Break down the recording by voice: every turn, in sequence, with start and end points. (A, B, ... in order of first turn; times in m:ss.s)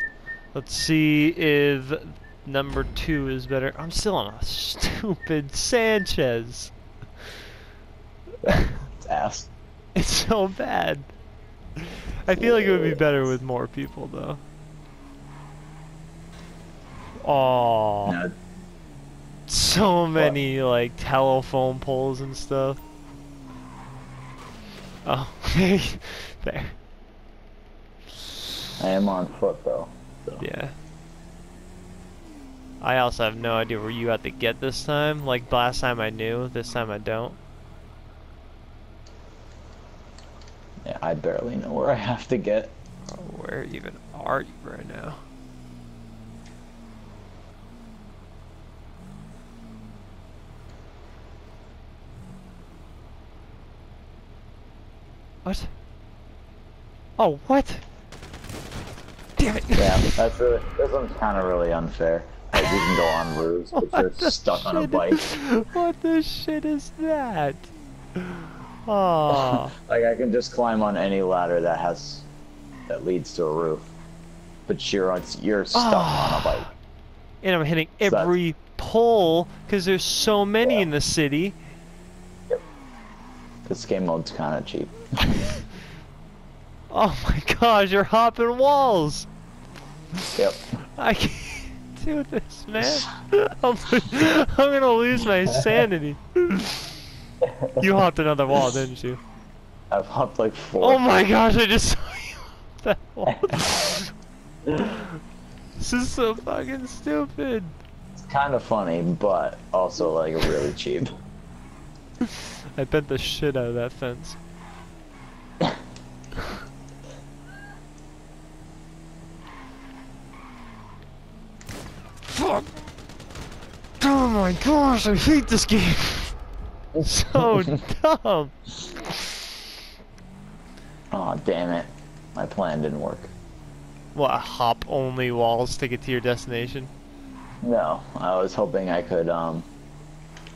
0:00.5-0:06.7 A
0:08.4-0:09.5 B
0:08.5-0:08.8 A
0:10.0-0:11.1 A
0:11.8-0:14.4 A
0:12.3-0:13.0 B
0:17.2-0:18.2 A
0:18.0-0:18.3 B
0:19.5-0:22.8 A
0:25.0-0:26.8 A
0:28.8-0:30.4 B
0:30.4-0:30.7 A
0:32.8-0:37.4 A
0:40.8-0:42.7 B
0:43.1-0:45.2 A
0:55.4-0:55.7 A
0:57.2-0:57.8 A
0:59.4-1:00.1 A
0:59.8-1:05.2 B
1:02.5-1:03.1 A
1:03.8-1:09.7 A
1:09.3-1:12.2 B
1:12.9-1:13.9 B
1:14.7-1:16.7 B
1:15.7-1:16.7 A
1:17.4-1:21.6 A
1:18.0-1:18.3 B
1:20.6-1:20.9 B
1:23.6-1:25.0 B
1:26.9-1:29.3 A
1:30.4-1:30.6 B
1:31.0-1:36.9 A
1:37.6-1:37.8 B
1:37.8-1:39.2 A
1:39.9-1:41.1 B
1:40.8-1:44.1 A
1:43.3-1:43.6 B
1:44.7-1:45.1 A
1:45.8-1:47.7 A
1:48.2-1:51.1 B
1:52.2-1:54.4 A
2:02.2-2:02.7 A
2:04.0-2:06.4 A
2:06.9-2:07.8 B
2:07.0-2:08.5 A
2:11.1-2:13.3 B
2:14.1-2:16.9 A
2:17.6-2:19.6 B